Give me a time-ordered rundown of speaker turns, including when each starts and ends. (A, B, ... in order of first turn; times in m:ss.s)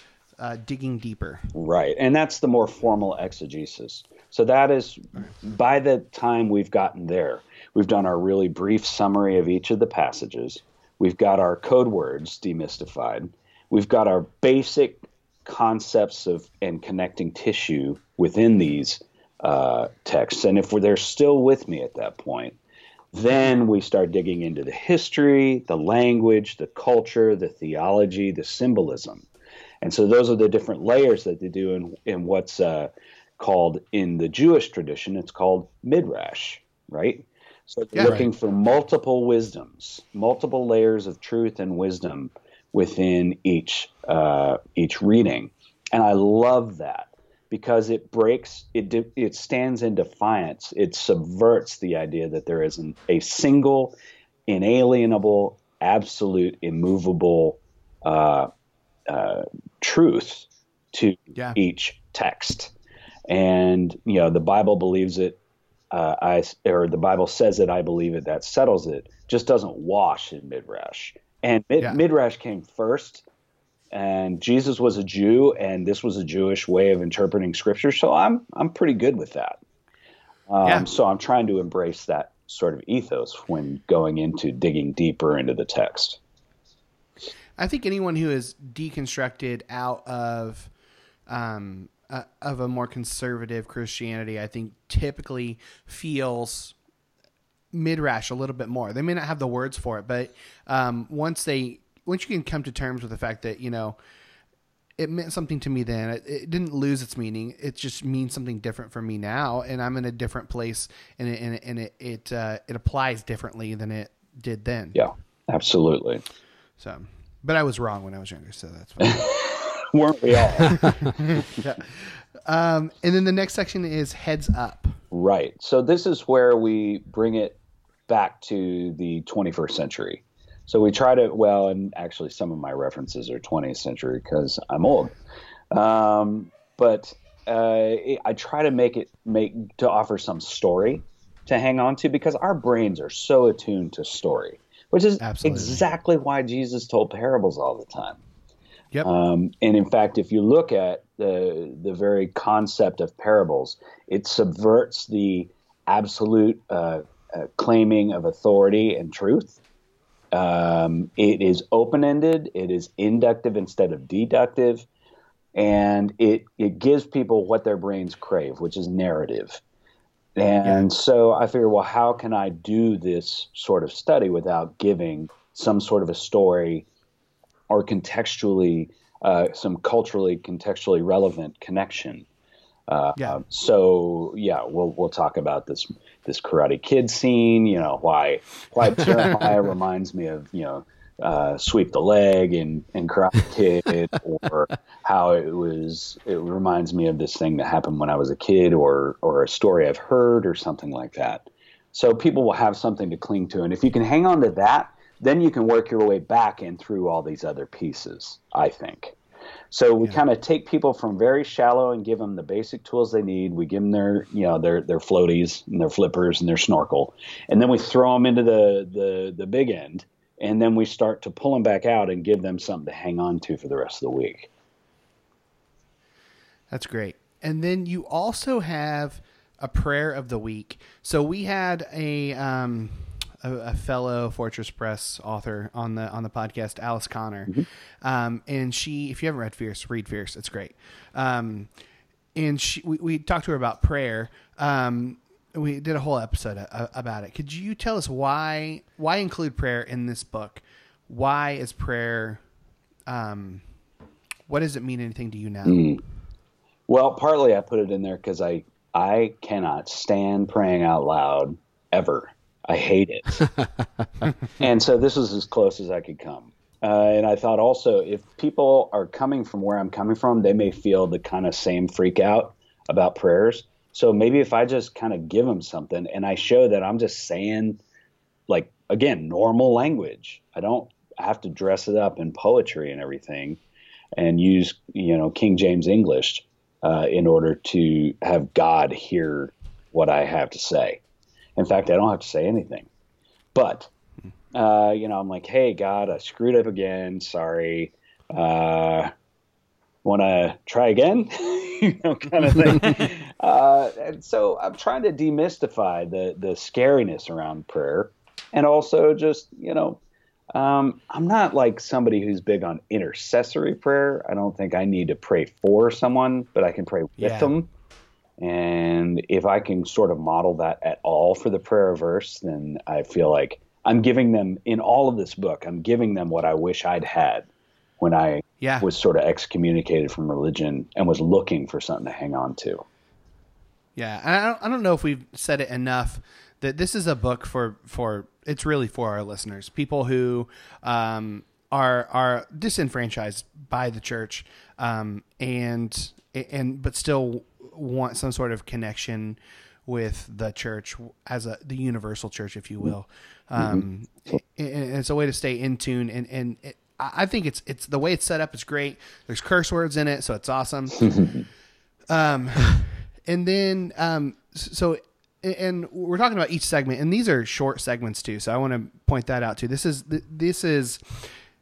0:00.4-0:01.4 A
0:01.5-0:22.6 B
0:23.1-0:29.2 B
0:29.8-0:53.9 B
0:37.9-0:38.3 A
0:54.5-0:58.5 B
0:59.1-1:02.7 B
1:03.3-1:05.4 B
1:05.9-1:13.2 B
1:13.9-1:19.6 B
1:20.5-1:26.2 B
1:27.6-1:30.7 A
1:31.3-1:36.7 A
1:37.7-1:44.0 A
1:45.0-1:55.0 A
1:54.9-1:56.2 B
1:56.8-1:59.3 A
1:59.0-2:01.0 B
2:00.7-2:01.8 A
2:02.4-2:05.0 A
2:05.1-2:15.1 B
2:15.7-2:28.2 B
2:25.2-2:25.8 A
2:29.0-2:39.6 B
2:40.3-2:44.8 B
2:45.5-2:49.6 B
2:50.4-2:56.8 B
2:57.7-3:02.2 B
3:02.9-3:29.1 B
3:29.7-3:44.5 B
3:46.7-4:01.7 A
4:02.3-4:12.4 A
4:13.1-4:13.6 A
4:14.5-4:15.8 A
4:15.6-4:16.0 B
4:16.9-4:23.5 B
4:24.6-4:37.8 B
4:38.5-4:43.6 B
4:44.1-4:51.0 B
4:51.6-4:52.9 B
4:53.5-4:53.9 B
4:54.5-4:59.1 B
5:00.0-5:10.0 B
5:10.5-5:17.7 B
5:17.2-5:17.5 A
5:18.4-5:27.5 B
5:28.0-5:32.8 B
5:28.6-5:28.9 A
5:34.0-6:01.1 A
5:53.6-5:53.8 B
6:00.9-6:01.4 B
6:02.1-6:11.3 A